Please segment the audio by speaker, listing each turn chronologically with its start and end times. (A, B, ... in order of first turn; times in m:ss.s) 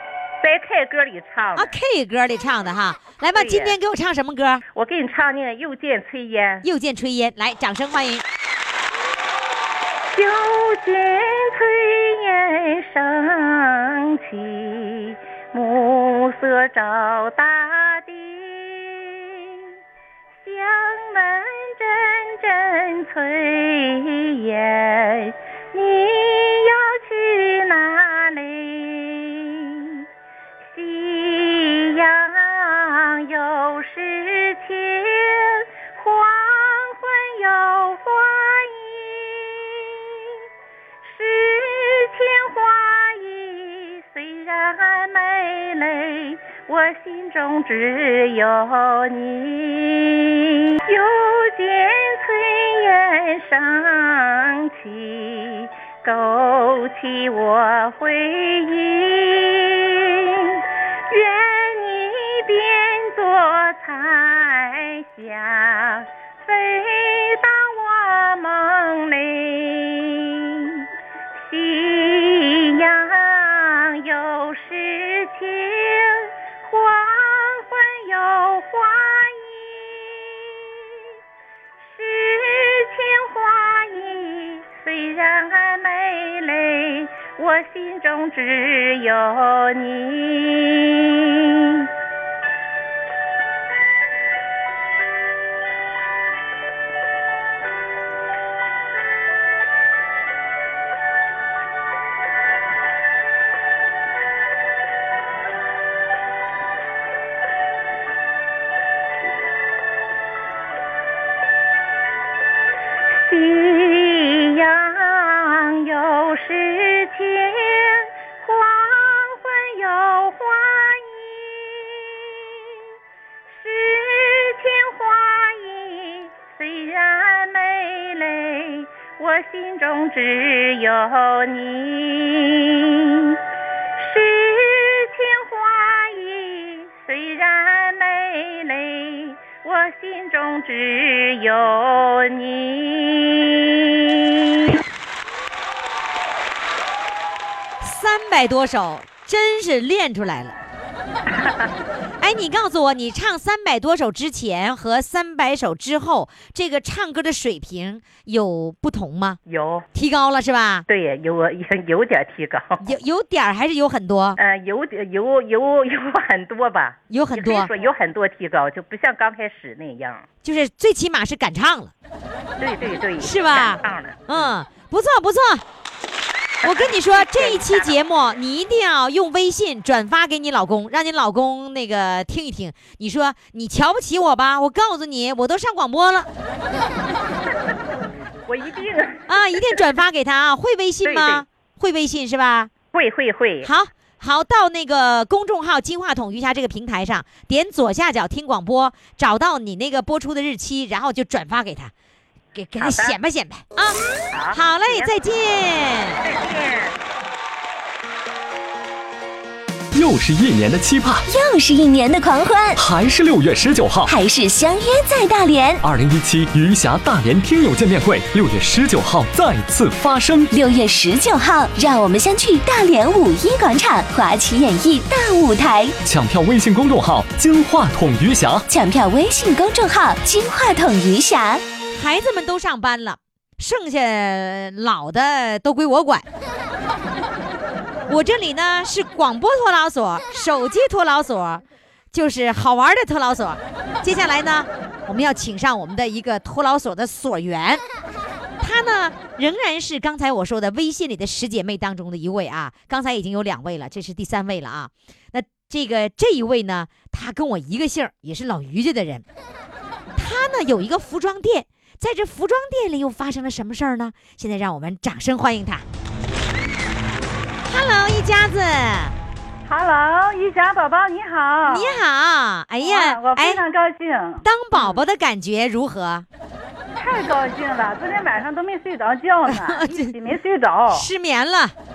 0:00.4-0:01.7 A
0:01.6-0:04.6 B
0:03.3-0:03.7 A
0:04.7-0:06.6 A
0:06.6-0:08.2 B
0:10.1-0:19.6 A
0:20.4-0:30.0 A
0:30.7-0:40.3 A
0:41.0-1:10.8 A
1:11.4-1:20.7 A
1:21.8-1:31.9 A
1:53.1-2:02.4 A
2:03.5-2:13.4 A
2:14.0-2:24.8 A
2:27.8-2:30.6 B
2:32.2-2:39.4 B
2:39.5-2:39.8 A
2:39.9-2:40.8 B
2:40.9-2:42.8 A
2:42.8-2:44.4 B
2:44.4-2:50.2 A
2:47.1-2:47.7 B
2:50.4-2:51.9 B
2:52.6-2:54.2 A
2:53.2-2:55.6 B
2:56.6-3:06.3 B
2:56.7-2:57.9 A
3:08.5-3:09.2 A
3:09.3-3:12.7 B
3:11.1-3:11.4 A
3:12.9-3:13.7 A
3:13.6-3:21.9 B
3:22.5-3:24.0 B
3:22.8-3:23.1 A
3:24.3-3:25.0 A
3:24.5-3:26.2 B
3:26.2-3:26.9 A
3:29.9-3:31.2 C
3:31.3-3:32.8 D
3:32.8-3:34.1 C
3:34.1-3:35.8 D
3:35.8-3:40.5 C
3:40.5-3:45.9 D
3:46.0-3:48.6 C
3:48.7-3:51.6 D
3:51.9-3:56.2 B
3:58.1-4:07.8 B
4:08.6-4:19.2 B
4:20.2-4:25.8 B
4:27.6-4:29.1 B
4:29.6-4:32.0 E
4:31.7-4:33.6 B
4:32.8-4:35.0 E
4:34.4-4:36.2 B
4:37.0-4:41.1 E
4:39.5-4:40.1 B
4:40.9-4:41.7 B